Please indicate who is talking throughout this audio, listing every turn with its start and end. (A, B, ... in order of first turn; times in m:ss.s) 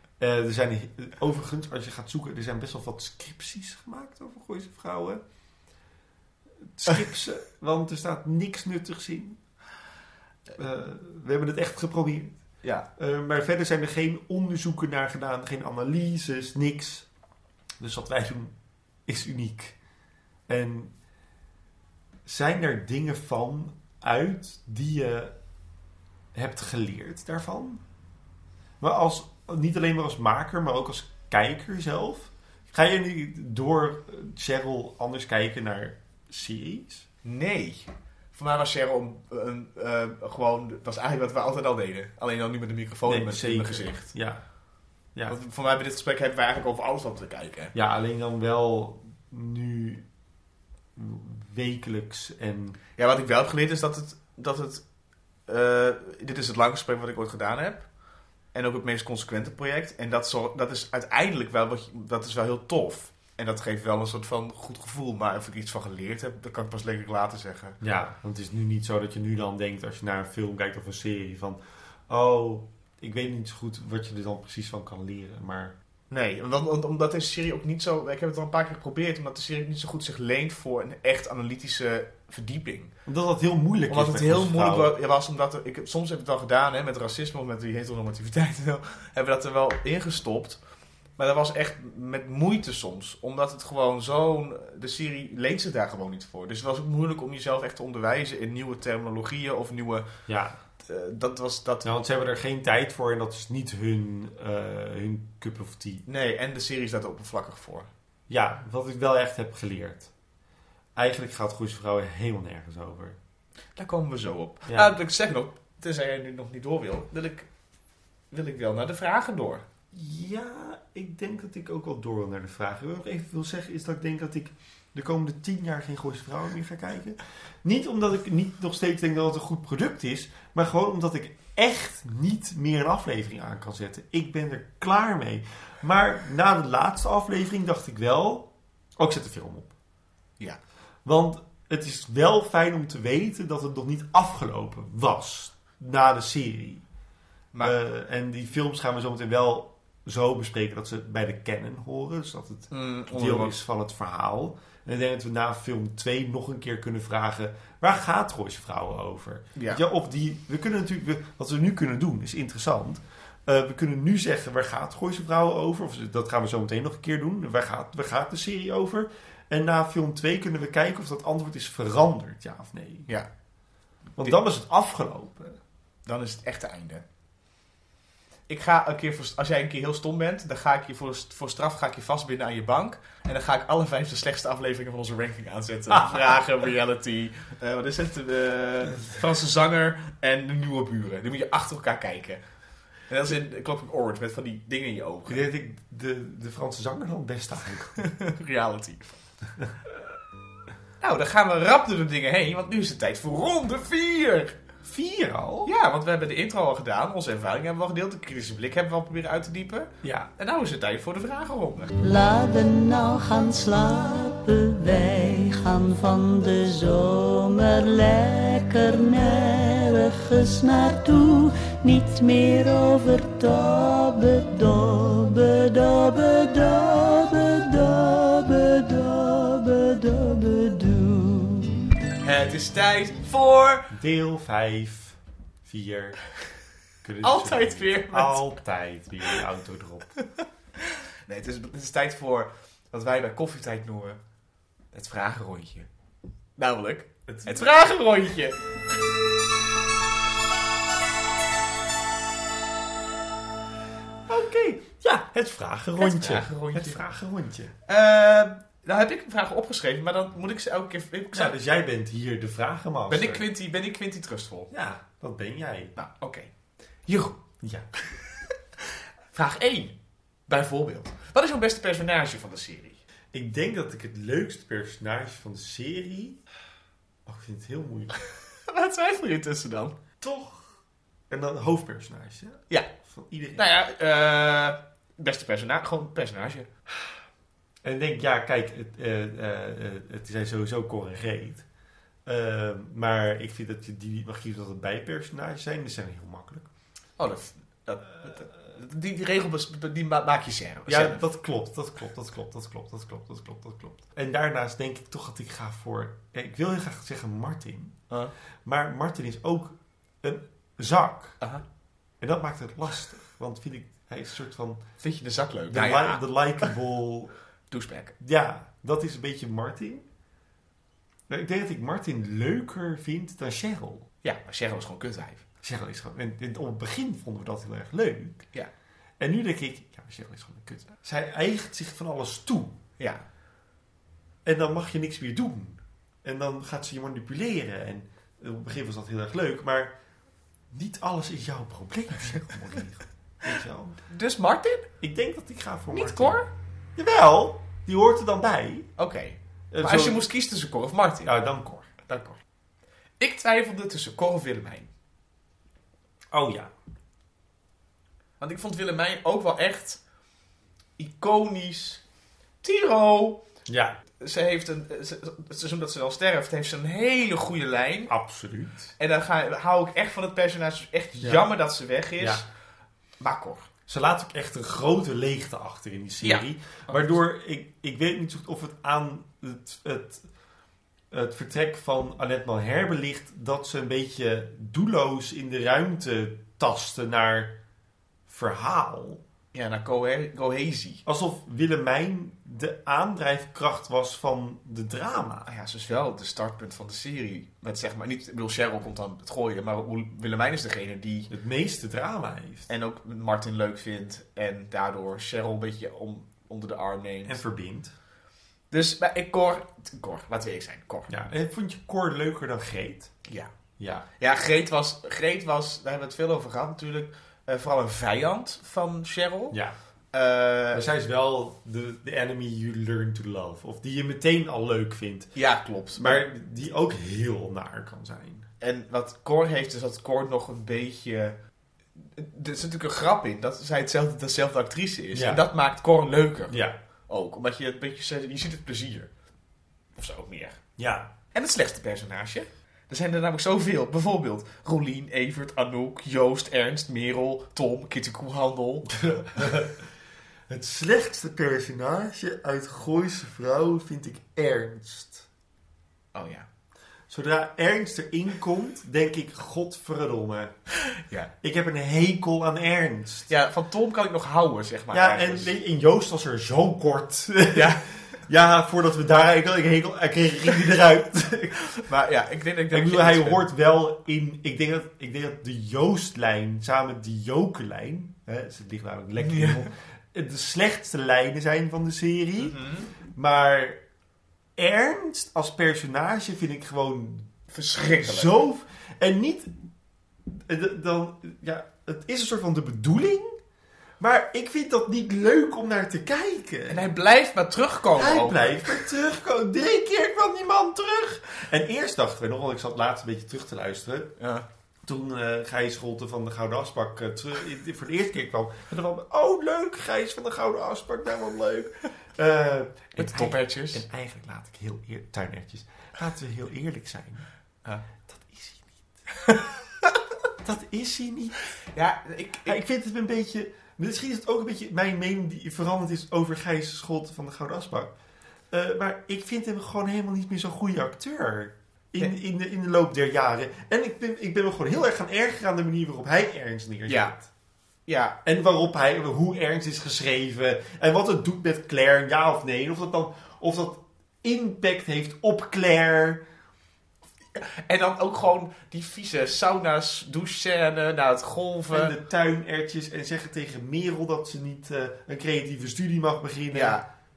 0:00.2-0:05.2 A
0:06.7-0:09.4 A
0:10.6-0:12.4 A
0:13.0-0:17.1 A
0:17.8-0:18.5 A
0:19.0-0:19.8 A
0:20.5-0:20.9 A
0:22.2-0:25.3 A
0:26.3-0:27.8 A
0:28.8-0:37.0 A
0:37.2-0:44.1 B
0:43.0-0:44.4 A
0:45.3-0:47.7 B
0:47.7-0:50.0 A
0:51.0-0:52.8 A
0:53.0-0:54.8 B
0:55.5-0:57.9 B
0:58.5-1:07.8 B
1:07.8-1:15.7 A
1:16.1-1:22.9 B
1:23.0-1:24.9 A
1:23.9-1:30.6 B
1:31.2-1:40.1 B
1:40.3-1:40.6 A
1:40.8-1:41.8 B
1:41.8-1:46.0 A
1:46.1-1:47.9 B
1:48.3-1:50.1 A
1:51.0-1:53.2 A
1:53.8-1:57.5 B
1:58.3-1:59.6 B
1:59.9-2:19.7 A
2:21.0-2:26.8 A
2:27.6-2:53.1 A
2:32.7-2:33.5 B
2:39.6-2:39.8 B
2:54.2-2:55.6 A
2:56.0-2:57.0 B
2:58.5-3:12.4 B
3:13.1-3:15.4 B
3:15.3-3:18.0 A
3:18.0-3:19.2 B
3:21.0-3:24.5 B
3:24.8-3:25.7 A
3:25.6-3:31.9 B
3:30.0-3:30.3 A
3:32.0-3:51.8 C
3:52.2-3:53.9 B
3:53.9-3:56.2 A
3:57.0-4:00.1 A
3:57.2-3:58.5 B
4:01.2-4:04.2 B
4:04.9-4:05.9 B
4:06.6-4:08.6 B
4:07.3-4:07.7 A
4:14.3-4:17.7 A
4:16.0-4:17.0 B
4:17.9-4:21.5 B
4:21.3-4:23.4 A
4:23.1-4:24.7 B
4:24.7-4:26.0 A
4:26.0-4:26.5 B
4:27.1-4:27.4 B
4:29.3-4:29.9 B
4:30.5-4:33.0 B
4:33.3-4:36.4 A
4:37.2-4:38.2 A
4:38.7-4:40.0 B
4:40.2-4:40.7 A
4:41.3-4:43.6 A
4:43.6-4:46.7 B
4:47.8-4:51.6 A
4:52.2-4:56.7 A
4:57.2-5:01.2 B
5:00.9-5:08.0 A
5:08.6-5:11.4 A
5:12.2-5:14.8 A
5:15.0-5:16.7 B
5:15.7-5:17.3 A
5:17.7-5:18.1 B
5:18.2-5:20.0 A
5:21.3-5:24.1 A
5:24.2-5:25.4 B
5:25.6-5:28.4 A
5:29.2-5:32.8 A
5:33.0-5:33.2 B
5:34.4-5:40.0 A
5:40.7-5:44.0 A
5:44.1-5:44.9 B
5:45.0-5:46.4 A
5:45.9-5:46.5 B
5:47.0-5:48.9 A
5:49.0-5:51.3 B
5:49.7-5:50.2 A
5:51.2-5:52.0 A
5:52.0-5:52.4 B
5:53.2-5:54.9 B
5:56.3-5:56.7 A
5:58.4-6:00.0 B
6:01.0-6:02.0 B
6:02.6-6:03.4 B
6:03.7-6:04.0 A
6:04.2-6:08.1 B
6:08.1-6:08.9 A
6:09.0-6:12.4 B
6:11.2-6:11.5 A
6:12.2-6:12.4 A
6:13.2-6:13.7 B
6:13.9-6:20.2 A
6:16.2-6:17.2 B
6:21.1-6:27.5 A
6:28.3-6:29.2 A
6:29.5-6:31.0 B
6:31.0-6:35.5 A
6:35.4-6:41.3 B
6:41.3-6:42.7 A
6:42.7-6:47.4 B
6:47.2-6:47.9 A
6:48.7-6:51.1 B
6:51.1-6:53.1 A
6:53.8-6:54.1 A
6:54.2-6:59.6 B
7:00.1-7:00.8 B
7:00.7-7:05.3 A
7:05.3-7:06.2 B
7:06.0-7:08.5 A
7:08.6-7:11.4 B
7:12.2-7:16.6 B
7:15.1-7:15.4 A
7:16.5-7:16.8 A
7:17.1-7:19.1 B
7:20.0-7:20.6 B
7:20.8-7:21.1 A
7:21.3-7:29.2 B
7:28.9-7:29.8 A
7:30.5-7:35.2 A
7:36.1-7:36.4 B
7:37.1-7:40.6 A
7:41.0-7:41.3 B
7:41.4-7:43.3 A
7:43.3-7:45.5 B
7:44.9-7:51.7 A
7:47.5-7:47.8 B
7:51.8-7:53.4 B
7:52.7-8:02.6 A
7:59.2-7:59.7 B
8:02.4-8:02.9 B
8:03.1-8:03.8 A
8:04.6-8:07.3 A
8:07.5-8:08.3 B
8:08.0-8:09.5 A
8:10.3-8:13.4 A
8:14.0-8:16.9 A
8:16.7-8:18.8 B
8:18.0-8:24.1 A
8:24.2-8:24.4 B
8:24.8-8:37.3 A
8:33.0-8:33.8 B
8:38.0-8:39.4 A
8:40.4-8:41.4 A
8:41.7-8:42.6 B
8:42.4-8:47.9 A
8:48.5-8:57.3 A
8:56.9-8:57.1 B
8:57.9-8:58.2 B
8:58.2-9:06.2 A
9:07.3-9:11.9 B
9:11.7-9:16.8 A
9:16.5-9:16.8 B